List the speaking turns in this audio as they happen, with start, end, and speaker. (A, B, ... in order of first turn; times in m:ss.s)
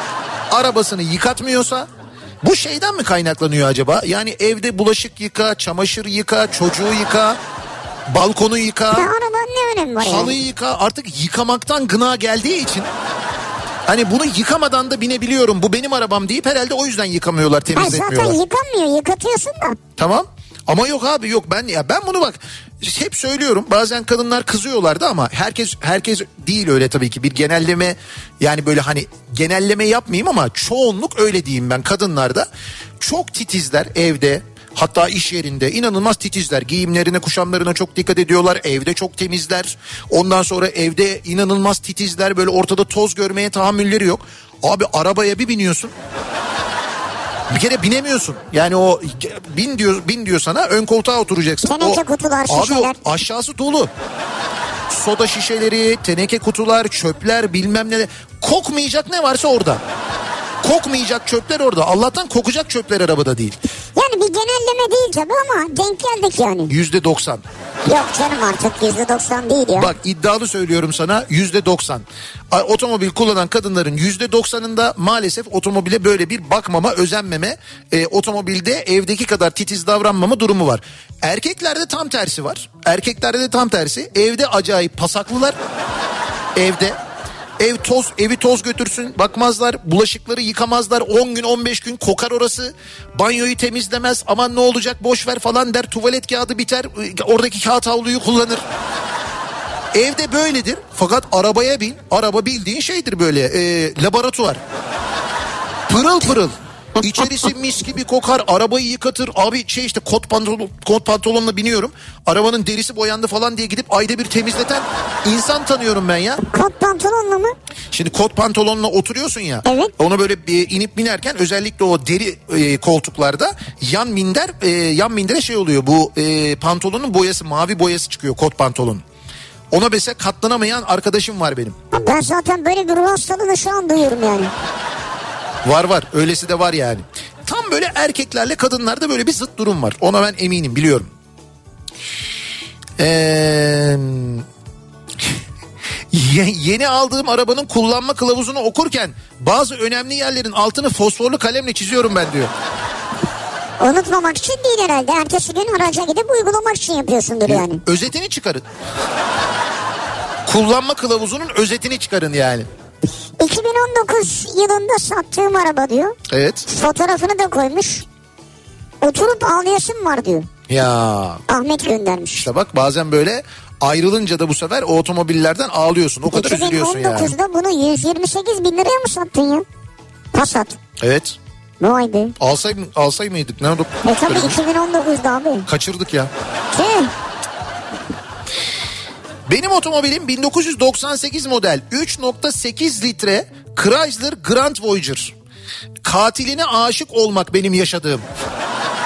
0:00.5-0:01.9 A
0:02.4-0:07.4 A
0:08.1-0:09.1 A
0:08.9-0:10.4 B
0:10.0-0:12.9 A
0:13.9-0:18.4 A
0:17.7-0:19.8 B
0:20.0-0:32.5 A
0:33.0-0:45.9 A
0:47.5-0:53.9 A
0:51.6-0:53.0 B
0:54.9-0:59.8 A
1:00.6-1:03.6 A
1:04.0-1:06.7 B
1:06.7-1:07.4 A
1:07.9-1:09.9 B
1:09.7-1:25.6 A
1:26.5-1:27.0 A
1:27.6-1:38.6 A
1:39.9-1:44.6 A
1:45.9-1:56.4 A
1:56.5-1:57.5 B
1:57.9-2:09.0 A
1:59.6-1:59.9 B
2:09.7-2:11.8 A
2:11.9-2:14.5 B
2:15.6-2:21.1 A
2:23.0-2:24.4 A
2:26.1-2:32.5 A
2:33.8-2:37.8 B
2:37.4-2:38.6 A
2:40.4-2:42.7 A
2:43.4-2:48.0 B
2:46.3-2:46.6 A
2:49.0-2:50.5 B
2:50.7-2:51.4 A
2:51.5-2:52.5 B
2:52.4-2:57.3 A
2:56.3-2:59.6 B
3:00.3-3:00.8 B
3:01.0-3:01.4 A
3:01.8-3:02.4 B
3:02.4-3:04.6 A
3:04.0-3:05.7 B
3:05.6-3:06.3 A
3:06.7-3:07.1 B
3:09.5-3:15.3 A
3:16.0-3:18.2 A